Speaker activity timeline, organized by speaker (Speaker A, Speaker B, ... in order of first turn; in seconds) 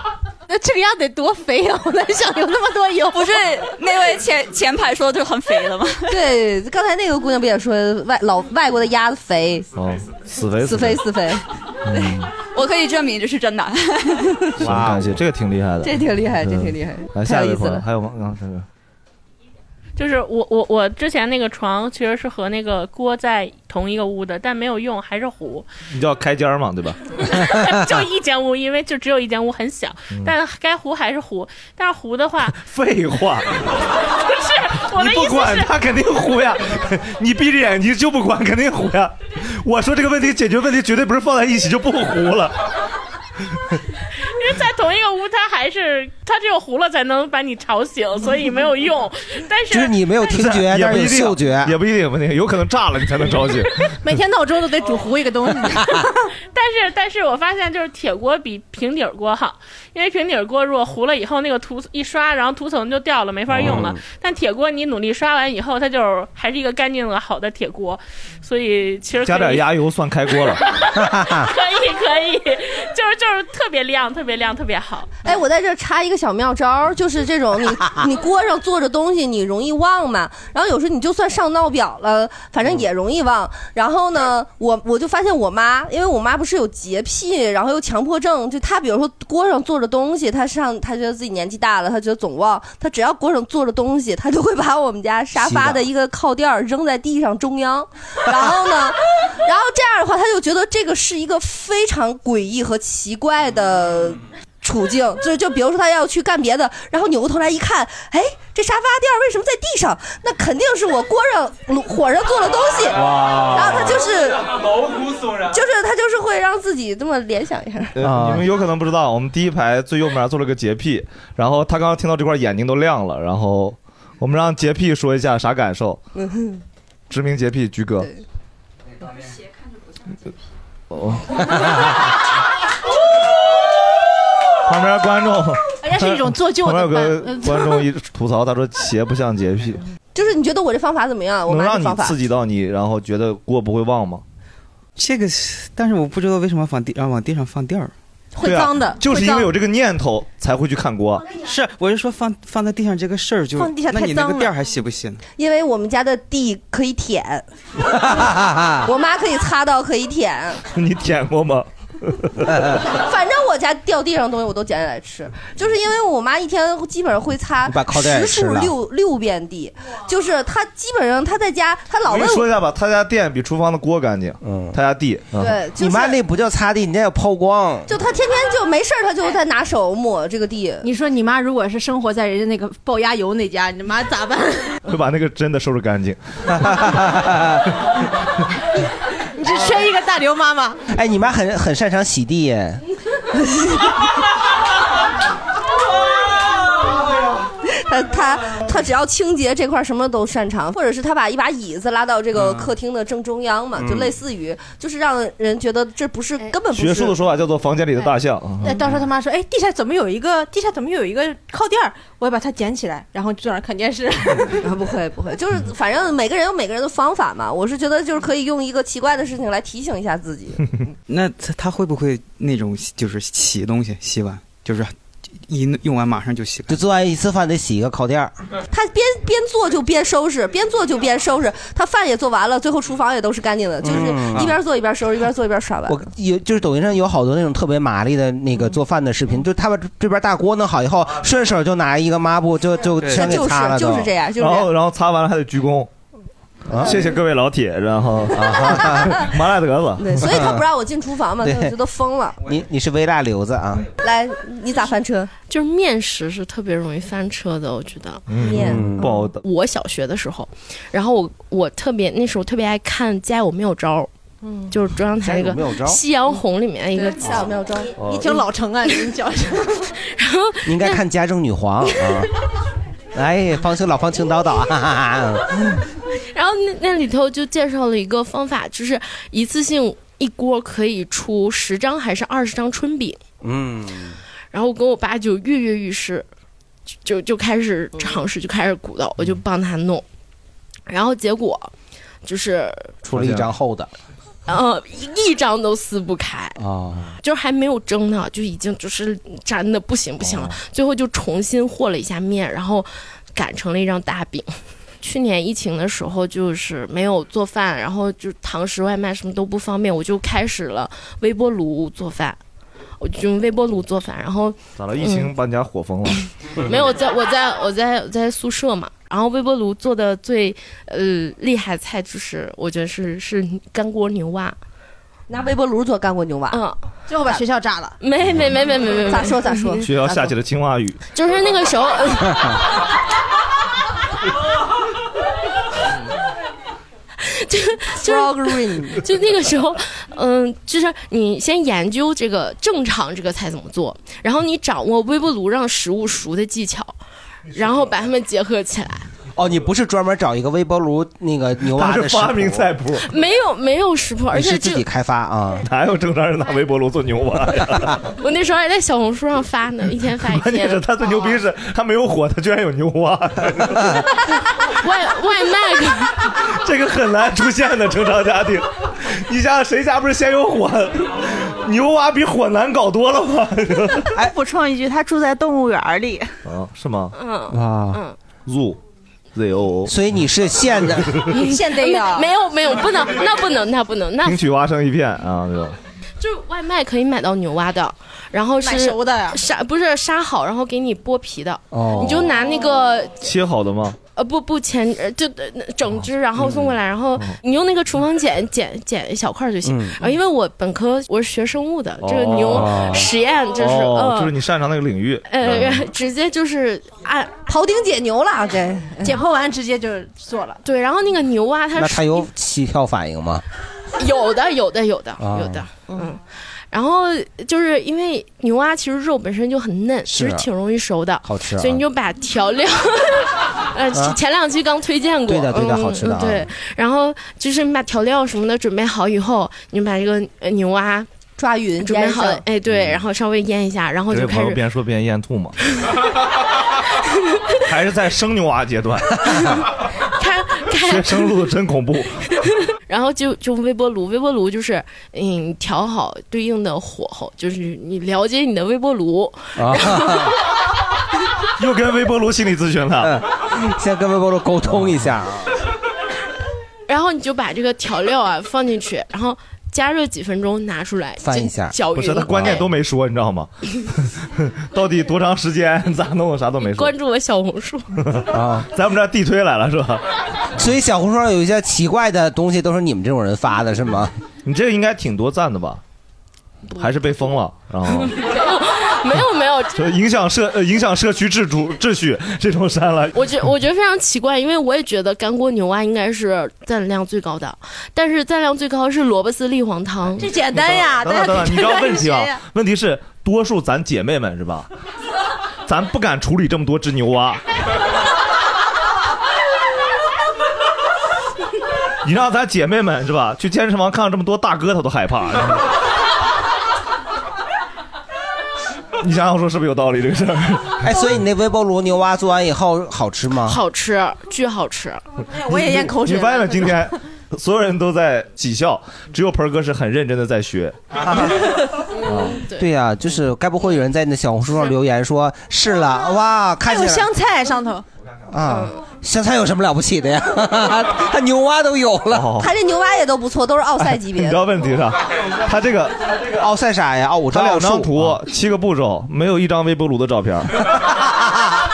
Speaker A: 0.5-3.5, 54.0-56.0, 135.8-137.9, 148.3-149.5, 153.6-154.5, 180.8-184.8, 189.4-190.8, 208.6-214.6, 268.0-269.9, 327.1-328.0, 381.3-382.3, 388.6-389.4, 409.0-410.6, 490.2-492.4, 515.2-516.9, 526.6-527.8
Speaker B: 3.1-6.1, 11.9-14.4
Speaker C: 6.1-9.7, 10.6-11.4, 15.8-17.8, 75.2-114.4, 115.5-117.9, 126.2-126.6, 140.2-142.2, 155.4-157.4, 158.8-160.6, 162.9-172.5, 175.4-176.2, 177.9-180.9, 193.4-193.9, 197.7-207.2, 214.6-220.6, 228.7-236.0, 243.0-244.7, 250.0-252.4, 254.0-255.3, 258.4-258.9, 267.0-267.9, 325.3-326.6, 329.1-329.8, 338.0-339.0, 407.5-409.1, 431.4-432.4, 532.4-534.4
Speaker D: 9.7-11.0, 11.9-12.3, 14.6-18.6, 25.9-27.0, 32.5-33.5, 34.9-42.5, 50.3-53.9, 63.5-63.9, 69.2-70.6, 118.0-126.0, 127.1-128.1, 130.9-131.6, 134.7-139.8, 141.5-144.2, 148.4-151.3, 160.7-162.5, 172.1-175.6, 184.9-186.2, 206.7-208.9, 244.4-245.9, 246.7-250.2, 258.3-259.4, 268.0-268.4, 293.2-293.5, 314.8-316.2, 329.8-331.0, 351.7-353.1, 355.6-358.0, 360.3-364.0, 366.4-374.1, 376.4-377.1, 378.5-378.8, 379.3-379.9, 384.2-385.8, 393.2-394.0, 402.0-403.0, 403.6-405.9, 434.1-435.6, 437.7-439.4, 440.8-442.1, 451.6-453.1, 461.9-463.5, 464.0-466.9, 468.1-470.0, 474.4-475.8, 476.8-478.2, 479.8-483.2, 490.5-494.7, 495.7-497.4, 502.1-505.6, 509.0-510.8, 515.7-520.8, 522.1-522.3, 532.1-532.5, 534.2-536.1, 537.3-540.6
Speaker E: 14.6-15.2, 49.7-51.8, 63.5-64.0, 71.0-71.5, 95.4-95.8, 113.1-113.8, 118.0-118.5, 158.1-158.8, 167.7-168.7, 174.4-174.8, 175.7-177.9, 186.7-187.6, 190.9-192.8, 226.7-228.3, 233.8-234.5, 235.9-244.1, 246.7-247.0, 248.4-249.1, 250.2-250.6, 251.4-251.8, 252.4-253.9, 258.6-259.0, 265.2-266.0, 270.6-272.3, 273.1-275.5, 283.4-284.2, 293.1-293.9, 296.6-297.1, 300.2-300.5, 349.4-352.7, 354.3-355.6, 377.5-378.0, 379.9-381.2, 391.7-392.3, 399.6-400.0, 402.5-403.0, 411.8-413.4, 415.2-415.6, 420.1-420.5, 421.2-421.8, 425.3-426.5, 449.6-450.3, 453.0-455.5, 461.2-461.7, 468.3-468.7, 470.6-474.1, 510.8-513.6, 521.0-521.4, 522.5-527.1, 528.3-532.3, 536.4-538.2
Speaker F: 20.0-25.7, 27.4-32.5, 34.3-35.7, 44.3-49.9, 56.5-69.7, 71.4-75.2
Speaker G: 145.0-147.9, 151.4-155.2, 221.1-226.8
Speaker H: 255.5-258.2, 259.4-264.1, 264.7-267.5, 270.1-271.0, 271.9-272.2, 276.3-283.2, 284.5-286.3, 287.1-290.1, 290.9-291.7, 292.2-292.9, 294.5-296.6, 297.2-312.4, 313.0-315.3, 316.6-324.6, 326.5-326.8, 328.0-329.9, 331.1-332.6, 337.2-347.0, 347.5-349.1, 353.1-354.9, 358.2-360.8, 364.7-366.2, 377.1-378.2, 381.3-384.4, 386.2-393.2, 394.2-404.3, 405.3-407.5, 410.6-412.3, 414.0-416.2, 416.7-431.1, 431.8-434.6, 437.1-437.4, 440.2-441.4, 442.9-450.4, 456.9-462.7, 466.6-467.9, 478.2-479.8, 483.1-490.3, 513.5-515.0, 522.0-522.7, 528.5-528.8